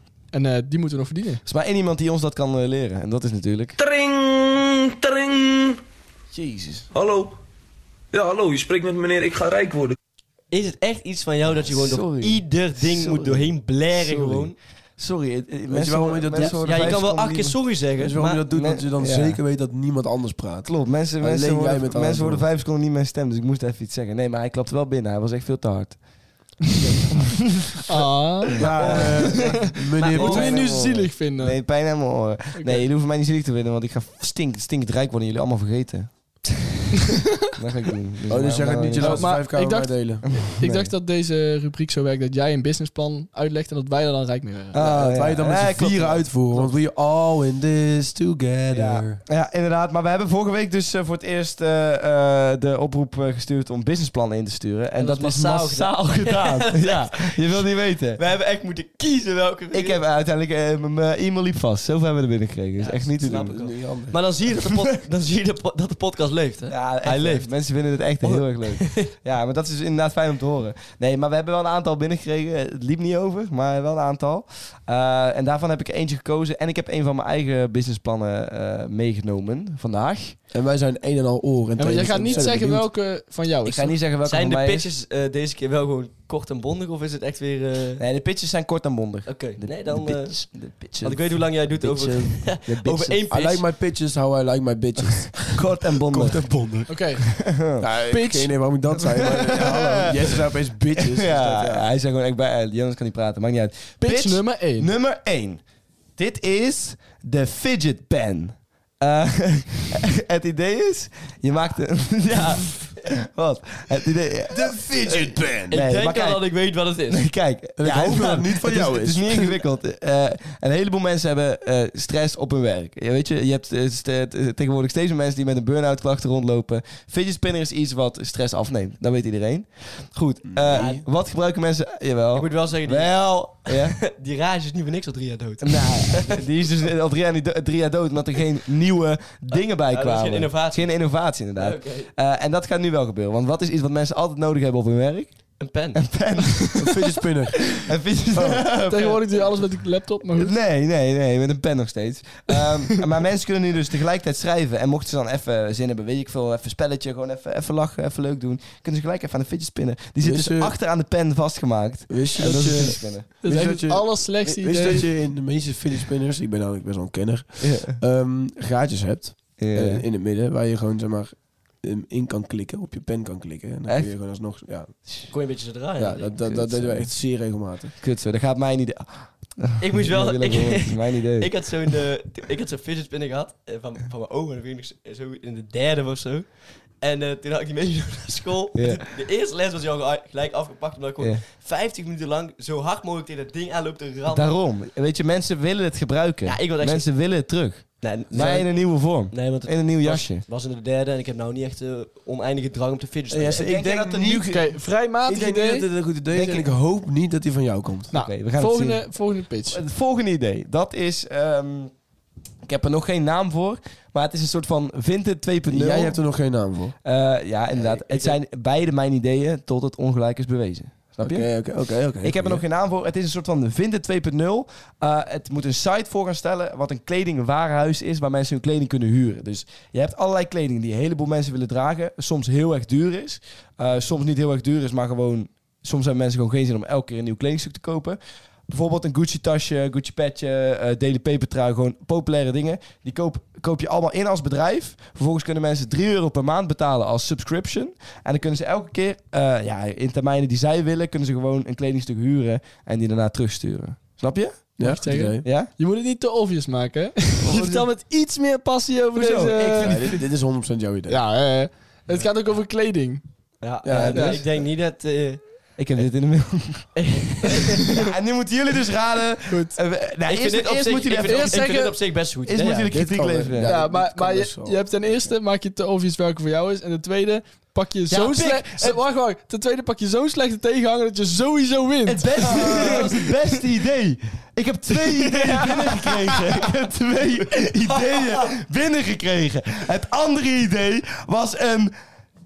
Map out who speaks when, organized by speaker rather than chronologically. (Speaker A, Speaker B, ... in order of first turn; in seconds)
Speaker A: 0.3-1.4, 27.9-32.0, 32.5-32.9, 39.0-44.8, 81.8-84.0, 96.9-97.2, 98.1-98.6, 104.0-104.9, 148.7-150.6, 162.4-165.1, 204.5-205.9, 208.1-209.8, 254.8-260.2, 261.1-263.2, 264.1-264.4, 269.5-269.8, 271.2-271.9, 273.6-283.4, 285.2-286.4
Speaker B: 1.4-3.8, 6.3-6.9, 11.6-17.7, 18.5-19.4, 20.6-26.1, 28.8-29.6, 30.1-36.5, 37.5-39.4, 40.3-40.9, 44.7-46.7, 48.7-58.2, 59.7-63.6, 66.7-80.4, 83.6-84.9, 88.0-93.2, 95.2-96.5, 97.4-97.8, 99.1-100.4, 101.1-105.6, 106.2-116.5, 117.1-134.0, 135.6-146.9, 147.7-149.5, 150.3-163.3, 167.6-168.0, 169.6-170.0, 173.8-174.1, 176.4-177.1, 178.0-181.5, 188.7-189.0, 194.3-200.4, 203.5-204.6, 206.3-206.6, 208.1-211.9, 212.6-216.2, 217.0-221.6, 222.2-254.8, 255.4-255.7, 257.5-257.8, 259.1-260.1, 263.9-264.4, 265.8-267.0, 267.5-271.9, 272.4-273.8, 278.1-279.0, 282.0-291.9
Speaker C: 3.8-5.8, 6.9-7.3, 8.1-9.9
Speaker D: 10.5-14.6, 16.4-18.5, 28.8-30.6, 55.0-60.0, 62.8-67.5, 68.2-69.1, 84.2-88.0, 89.3-93.6, 115.7-117.3, 130.7-131.0, 132.3-136.4, 139.5-142.1, 145.6-146.5, 175.3-176.4, 179.8-194.5, 196.4-203.7, 217.8-218.3, 263.6-265.4, 266.9-267.9, 270.2-272.9, 282.7-283.1
Speaker E: 15.7-17.1, 18.0-22.4, 28.5-31.1, 38.3-40.4, 44.8-49.2, 63.2-64.2, 80.5-82.9, 93.3-101.9, 114.5-115.7, 117.8-119.5, 130.5-131.0, 146.8-147.8, 148.3-148.7, 160.2-160.7, 162.1-174.9, 176.0-177.9, 203.3-208.1, 215.7-216.9, 221.2-222.6, 254.8-255.4, 259.8-261.2, 263.8-264.4, 272.9-275.3